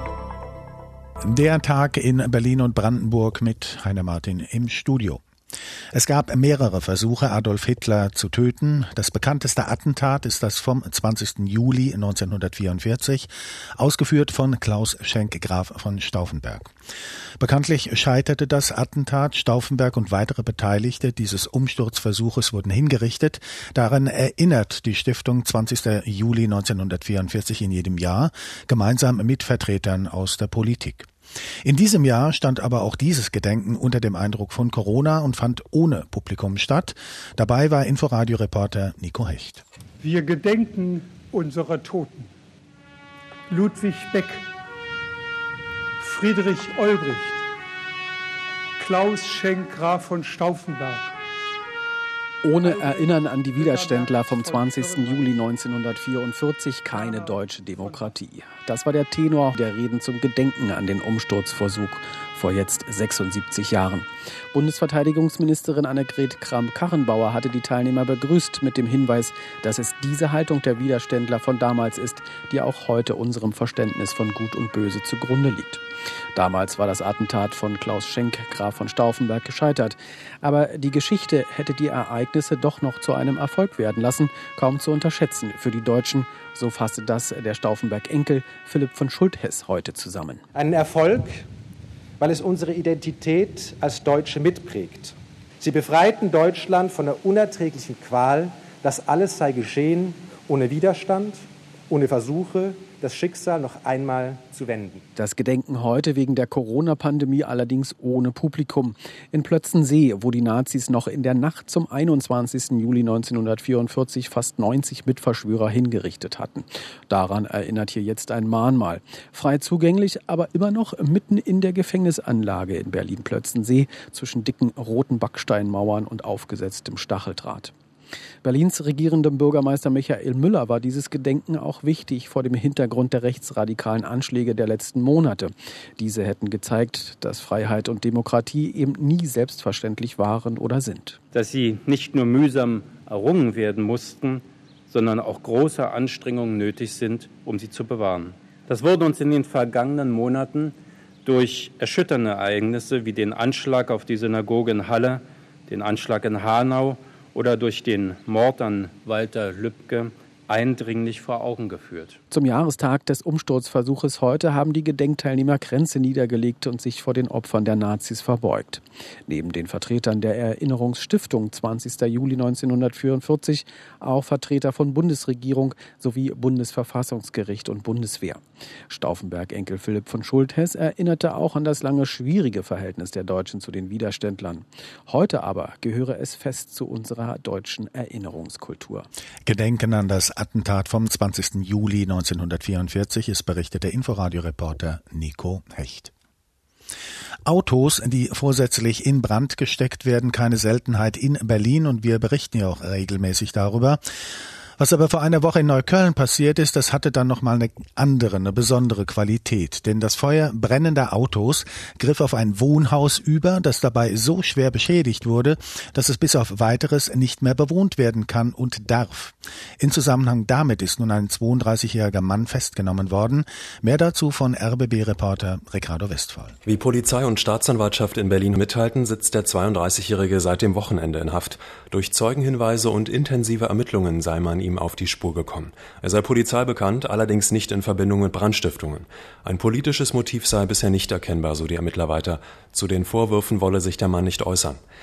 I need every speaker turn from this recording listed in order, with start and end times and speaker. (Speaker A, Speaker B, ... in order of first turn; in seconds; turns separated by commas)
Speaker A: 1.2-5.2, Speaker A: 5.9-16.7, Speaker A: 17.4-31.1, Speaker A: 31.6-39.6, Speaker B: 40.0-42.3, Speaker B: 43.5-44.4, Speaker B: 46.0-47.4, Speaker B: 48.8-51.0, Speaker C: 52.4-75.8, Speaker B: 52.6-55.3, Speaker B: 57.0-57.3, Speaker C: 76.3-90.4, Speaker D: 90.5-91.5, Speaker D: 92.2-105.0, Speaker C: 105.2-127.7, Speaker C: 128.4-141.2, Speaker E: 141.3-162.2, Speaker C: 162.3-189.1, Speaker A: 189.4-196.1, Speaker A: 197.4-204.0, Speaker A: 204.8-226.6, Speaker F: 226.7-244.8